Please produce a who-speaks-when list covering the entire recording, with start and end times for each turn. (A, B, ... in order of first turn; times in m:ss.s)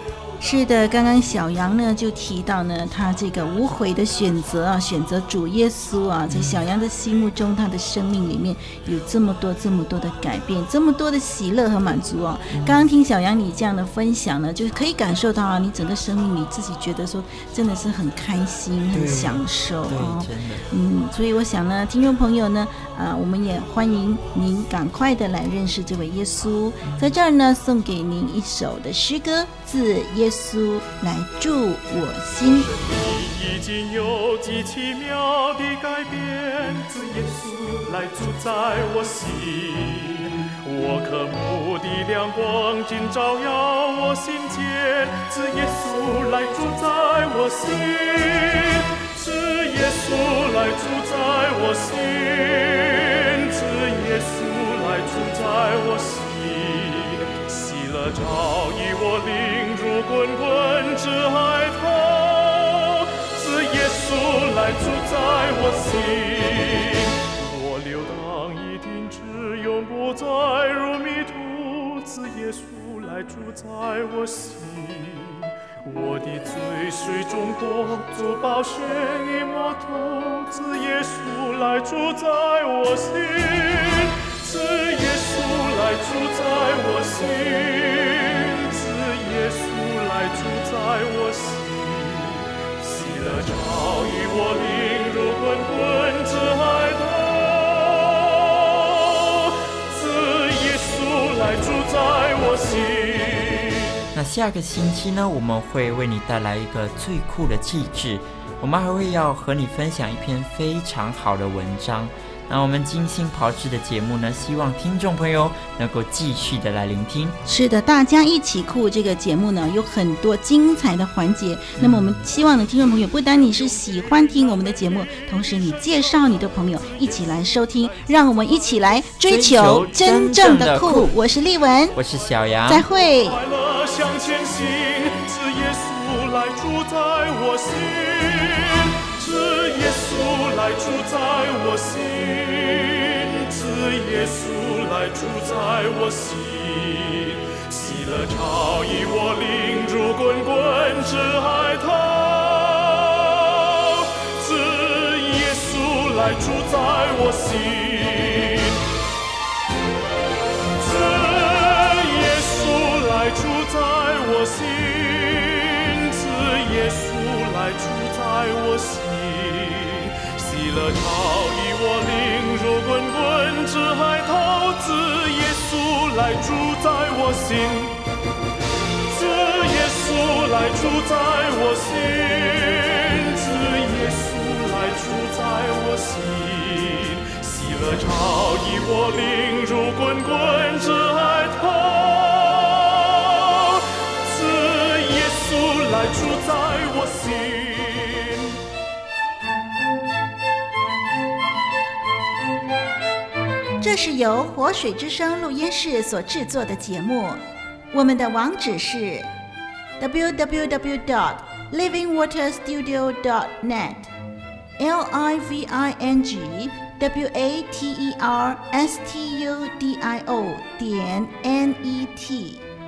0:00.4-0:32.7 A
0:06.3-0:06.7 B
0:12.5-0:12.9 B
0:18.9-0:20.7 B
0:26.8-0:27.2 B
0:32.8-1:44.0 C
1:44.1-1:57.4 B
1:57.5-2:12.0 A
2:01.8-2:02.2 B
2:09.2-2:11.1 B
2:12.0-2:12.8 B
2:12.7-2:13.4 A
2:13.2-2:38.8 C
2:40.8-2:58.0 C
2:59.1-3:18.6 C
3:23.8-3:29.3 A
3:30.0-3:34.1 A
3:34.8-3:42.6 A